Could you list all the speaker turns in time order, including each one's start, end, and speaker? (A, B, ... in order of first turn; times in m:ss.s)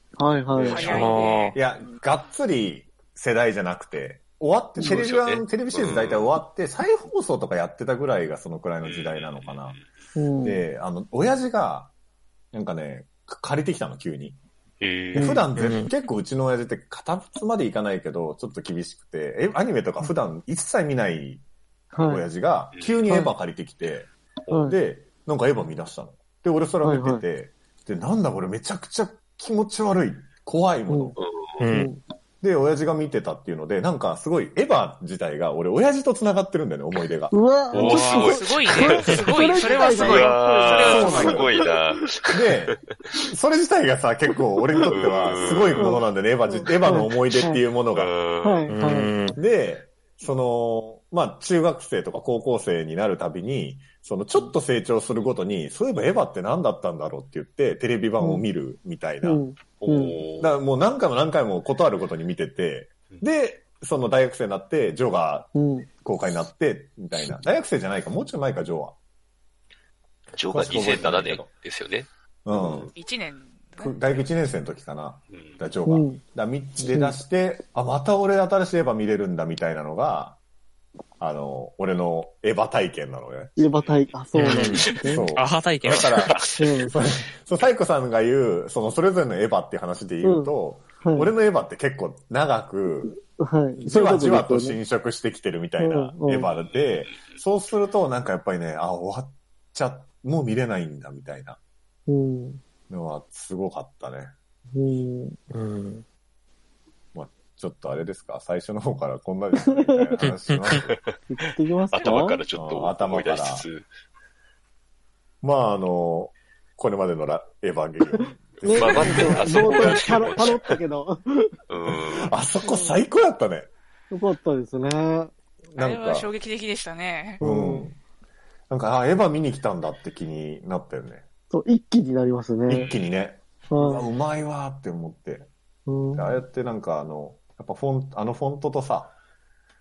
0:00.2-0:01.0 A
0:00.5-0:09.8 B
0:00.7-0:01.6 C
0:00.8-0:01.6 D
0:04.8-0:06.3 E
0:08.8-0:09.8 E
0:10.2-0:10.6 A
0:10.4-0:11.9 B
0:12.5-0:14.4 B
0:14.8-0:15.4 E
0:15.1-0:21.4 B
0:15.1-0:15.4 A
0:15.6-0:15.9 D
0:21.9-0:22.2 A
0:22.0-0:31.2 B
0:22.7-0:23.0 E
0:23.1-0:23.3 A
0:24.5-0:24.8 A
0:26.8-0:27.2 A
0:30.9-0:31.1 A
0:31.2-0:31.5 E
0:31.6-0:31.9 D
0:31.7-0:32.0 A
0:32.4-0:37.3 B
0:37.3-0:41.7 A
0:37.7-0:42.8 E
0:37.8-0:38.3 D
0:37.9-0:41.4 C
0:40.8-0:41.5 B
0:42.3-0:48.1 B
0:44.8-0:46.0 E
0:45.7-0:47.6 A
0:48.0-0:48.7 E
0:48.4-0:49.3 A
0:48.7-0:49.4 D
0:49.3-0:59.4 B
0:58.2-0:58.4 A
0:59.2-1:00.2 A
0:59.8-1:00.5 E
1:00.4-1:09.0 B
1:05.5-1:05.9 A
1:10.3-1:12.9 E
1:10.5-1:11.5 B
1:12.4-1:12.9 B
1:13.0-1:14.1 C
1:13.8-1:20.4 B
1:15.3-1:15.6 E
1:15.9-1:16.2 A
1:16.8-1:17.2 A
1:21.2-1:23.6 B
1:23.6-1:25.3 A
1:24.4-1:26.4 D
1:25.0-1:33.1 B
1:25.8-1:26.6 E
1:26.6-1:26.9 A
1:30.2-1:31.3 A
1:33.0-1:34.8 A
1:33.8-1:41.6 B
1:35.8-1:36.5 A
1:42.1-1:42.6 A
1:42.9-1:44.3 B
1:44.7-1:45.4 A
1:45.5-1:46.0 D
1:47.1-1:51.0 B
1:49.7-1:50.2 A
1:50.2-1:50.8 D
1:51.3-1:52.4 A
1:51.9-1:53.9 E
1:52.6-1:53.6 B
1:55.4-2:00.4 B
1:58.6-2:01.5 A
1:58.7-2:00.8 E
2:01.7-2:02.3 E
2:02.1-2:03.7 B
2:02.6-2:03.0 A
2:04.1-2:05.3 A
2:05.7-2:06.3 B
2:05.8-2:07.4 C
2:07.4-2:07.9 A
2:07.4-2:08.0 B
2:08.7-2:11.2 B
2:11.5-2:12.8 A
2:12.7-2:15.5 B
2:12.8-2:13.0 E
2:13.7-2:14.0 A
2:15.9-2:16.4 A
2:16.1-2:19.1 B